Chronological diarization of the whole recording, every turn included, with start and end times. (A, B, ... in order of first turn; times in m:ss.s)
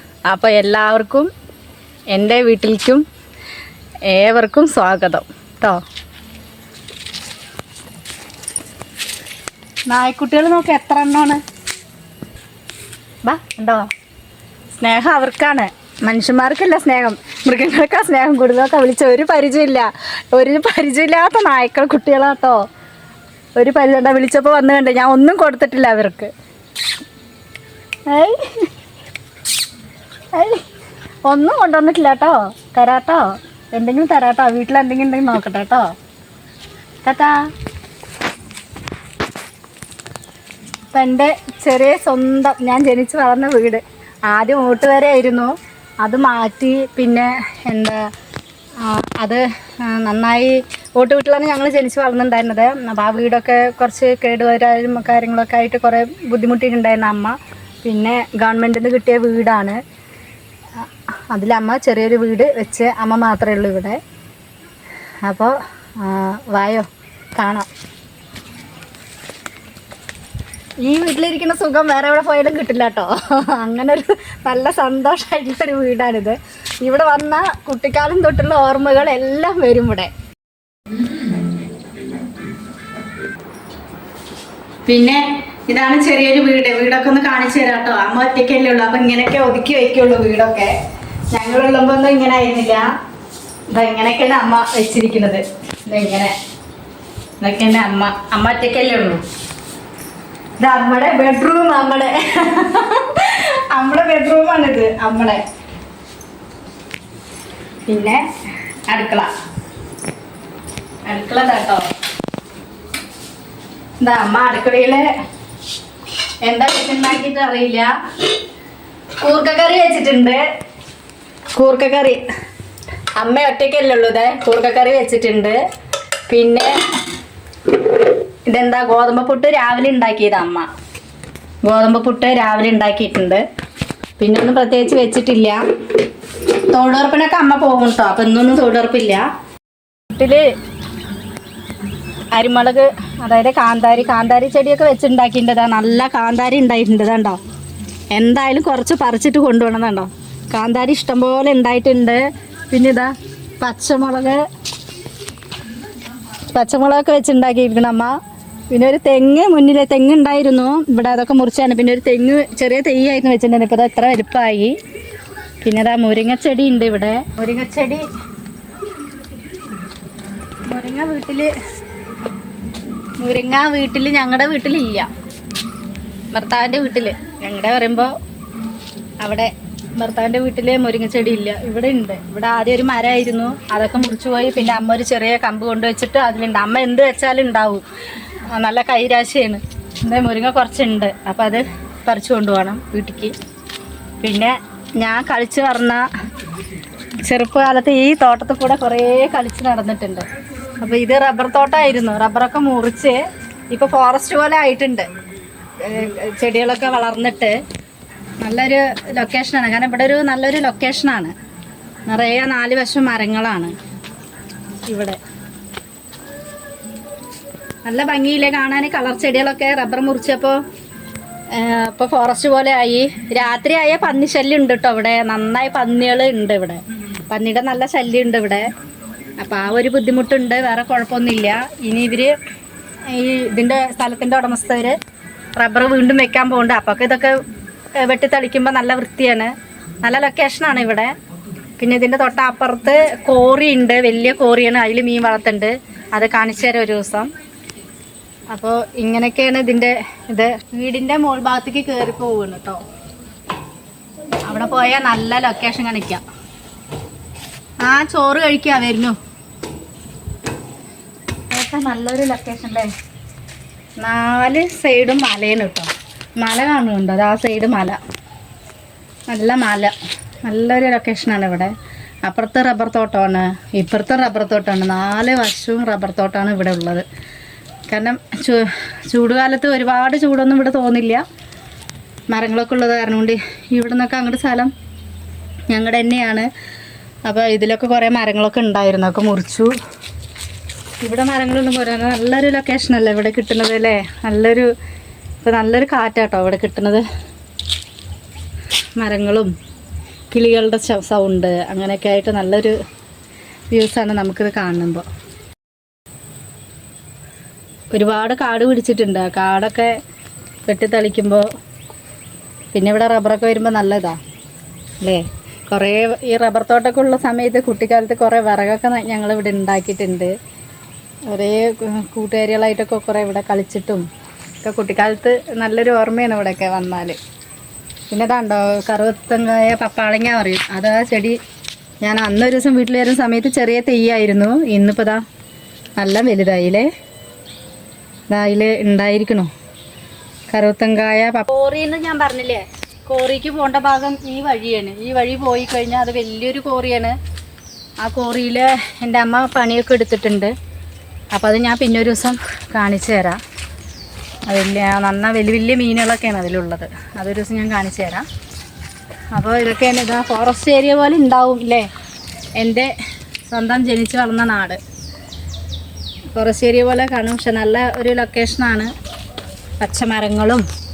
0:00.3-0:01.3 A
0:02.1-0:03.0 A
0:04.0-0:05.8 A
0:09.9-0:11.4 A
0:13.2-0:13.9 A
0:14.7-0:22.7 A
0:23.6-0:26.3 A
0:28.1-0:28.7 A
0:30.3-0:30.6 A
0:31.2-0:36.0 A
0:37.0-0:37.5 A
0:40.9-0:48.1 A
0:48.8-0:59.8 A
1:00.8-1:04.0 A
1:05.2-1:07.7 A
1:10.8-1:20.1 A
1:24.9-1:30.8 A
1:31.3-1:32.9 A
1:33.7-1:36.3 A
1:37.4-1:39.2 A
1:40.6-1:45.4 A
1:47.9-1:48.2 A
1:48.9-1:49.3 A
1:51.1-1:51.9 A
1:54.0-1:55.1 A
1:56.4-1:57.9 A
1:59.2-2:00.4 A
2:01.6-2:02.2 A
2:03.2-2:05.6 A
2:06.3-2:06.7 A
2:08.5-2:10.7 A
2:11.6-2:13.4 A
2:14.2-2:15.6 A
2:16.6-2:19.3 A
2:20.1-2:20.5 A
2:22.3-2:27.4 A
2:28.1-2:34.4 A
2:36.5-2:38.2 A
2:38.7-2:44.8 A
2:45.6-2:48.0 A
2:50.7-2:51.5 A
2:53.2-2:55.1 A
2:56.3-2:58.1 A
2:59.2-3:07.8 A
3:08.5-3:13.4 A
3:14.2-3:16.1 A
3:17.2-3:20.3 A
3:20.8-3:25.1 A
3:25.8-3:27.6 A
3:28.4-3:31.3 A
3:32.1-3:33.7 A
3:34.9-3:35.2 A
3:37.8-3:40.6 A
3:41.5-3:48.7 A
3:49.4-3:52.3 A
3:53.1-3:55.0 A
3:55.6-3:57.4 A
3:58.0-4:01.1 A
4:01.8-4:07.3 A
4:08.5-4:12.8 A
4:14.4-4:16.2 A
4:17.8-4:19.2 A
4:21.5-4:22.9 A
4:24.0-4:28.0 A
4:29.3-4:29.9 A
4:30.4-4:37.0 A
4:37.9-4:41.2 A
4:42.3-4:44.7 A
4:45.7-4:46.5 A
4:47.2-4:49.8 A
4:51.0-4:54.7 A
4:55.4-4:57.0 A
4:59.0-4:59.5 A
5:00.3-5:02.8 A
5:03.7-5:05.0 A
5:07.9-5:10.0 A
5:10.7-5:11.5 A
5:12.7-5:14.2 A
5:15.0-5:20.3 A
5:21.3-5:24.1 A
5:24.6-5:27.2 A
5:28.1-5:31.4 A
5:32.0-5:35.2 A
5:36.0-5:36.9 A
5:38.3-5:39.5 A
5:40.5-5:47.2 A
5:48.0-5:50.5 A
5:51.3-5:53.4 A
5:54.5-5:58.3 A
5:59.3-6:01.9 A
6:02.6-6:02.9 A
6:03.5-6:04.8 A
6:06.3-6:08.9 A
6:09.8-6:10.7 A